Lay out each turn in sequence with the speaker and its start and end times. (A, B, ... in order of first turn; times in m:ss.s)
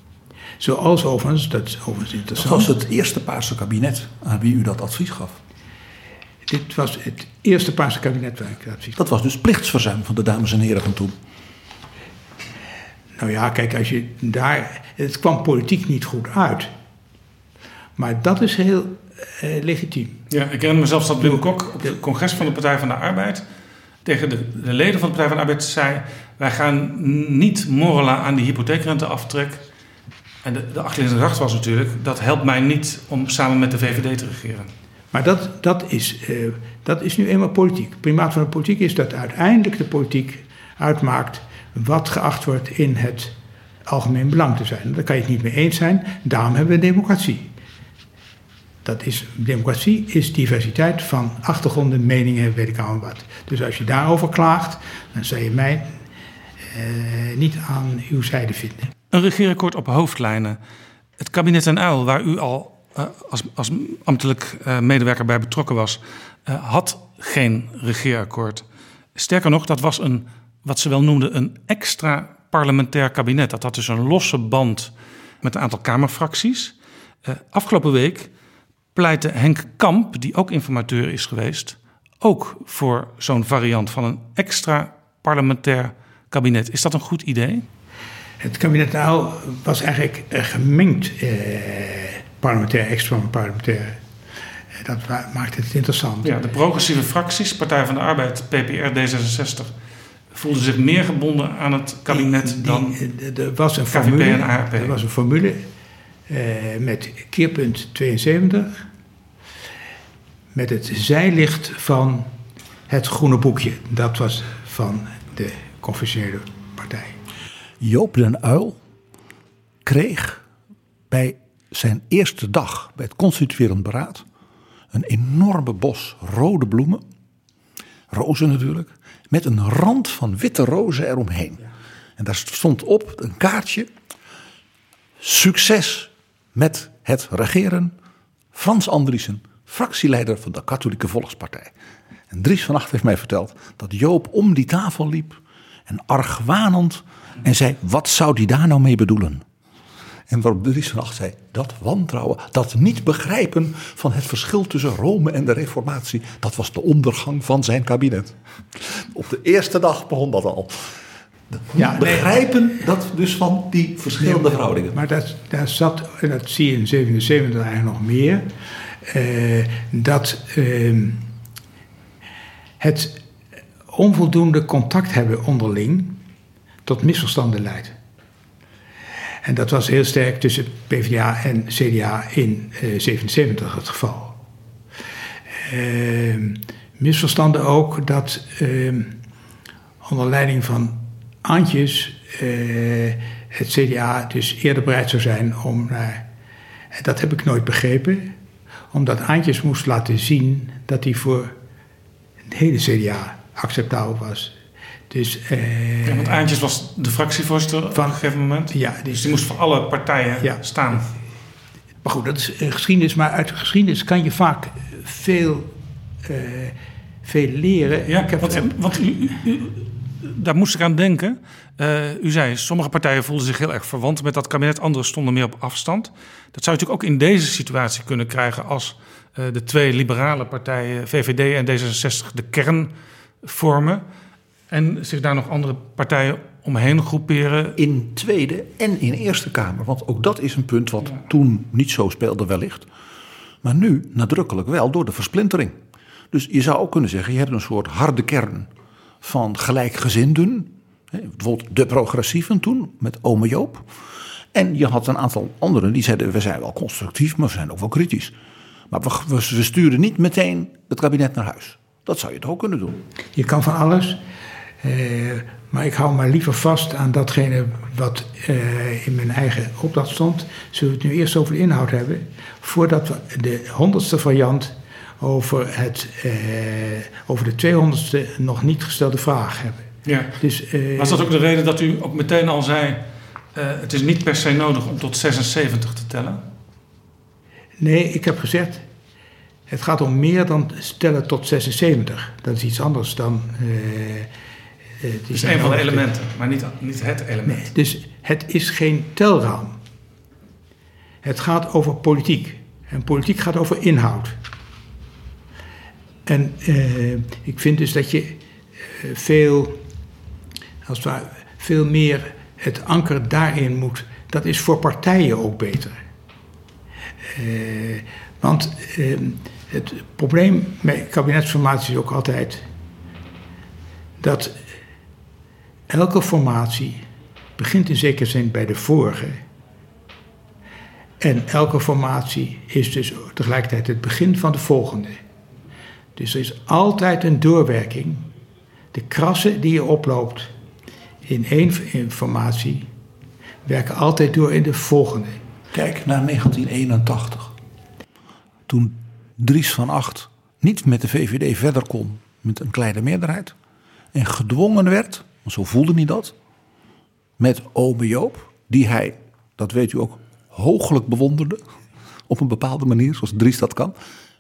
0:00.6-0:02.7 A
0:02.4-0:05.4 B
0:06.5-0:09.0 A
0:09.0-0:11.2 B
0:13.2-0:16.7 A
0:18.0-0:20.2 A
0:20.3-0:23.4 C
0:21.2-0:22.0 A
0:24.0-0:29.6 C
0:30.4-0:34.7 C
0:35.1-0:47.5 A
0:48.8-0:56.0 A
0:56.7-0:58.9 A
0:59.1-1:00.6 C
1:01.2-1:08.6 C
1:09.2-1:16.7 C
1:17.2-1:18.3 C
1:19.0-1:27.6 C
1:28.4-1:34.0 A
1:34.8-1:36.3 A
1:36.2-1:39.7 C
1:40.3-1:43.0 C
1:42.1-1:45.6 A
1:43.9-1:45.0 C
1:46.3-1:48.8 A
1:50.5-1:52.3 A
1:52.9-1:57.2 A
1:57.8-1:58.8 B
1:59.8-2:00.4 B
2:01.1-2:04.2 B
2:04.9-2:07.0 B
2:08.1-2:11.6 B
2:12.2-2:13.9 B
2:15.2-2:18.0 B
2:18.5-2:21.7 B
2:22.3-2:29.4 B
2:30.3-2:40.9 B
2:41.5-2:45.0 B
2:41.7-2:42.5 A
2:44.2-2:48.5 A
2:49.1-2:51.2 A
2:52.8-2:53.2 A
2:53.9-2:56.2 A
2:56.9-2:58.0 A
2:59.4-3:04.4 A
3:05.6-3:09.1 A
3:10.0-3:16.2 A
3:16.9-3:18.3 A
3:18.9-3:21.5 A
3:22.5-3:24.5 A
3:25.1-3:26.5 A
3:26.1-3:31.1 C
3:27.9-3:29.4 A
3:32.0-3:35.7 A
3:36.2-3:39.1 A
3:38.1-3:54.0 C
3:54.7-3:57.8 C
3:57.8-4:02.9 B
4:03.6-4:05.8 B
4:06.3-4:08.7 B
4:09.2-4:13.9 B
4:14.5-4:18.3 B
4:18.9-4:23.0 B
4:23.4-4:24.2 A
4:24.8-4:41.3 A
4:40.1-4:40.4 C
4:41.0-4:46.4 C
4:47.8-4:48.9 A
4:49.7-4:54.3 A
4:55.0-4:56.1 A
4:55.3-4:57.7 C
4:57.4-4:59.8 A
5:01.2-5:04.4 A
5:06.3-5:08.4 A
5:09.0-5:09.8 A
5:10.8-5:16.0 A
5:17.3-5:22.7 A
5:24.2-5:24.6 A
5:25.9-5:27.0 A
5:27.6-5:29.4 A
5:31.2-5:35.2 A
5:36.2-5:38.3 A
5:38.9-5:40.5 A
5:41.3-5:42.9 A
5:43.7-5:45.4 A
5:45.7-5:47.6 B
5:48.7-5:53.6 B
5:54.1-5:56.3 B
5:57.4-6:01.6 B
6:02.3-6:03.9 B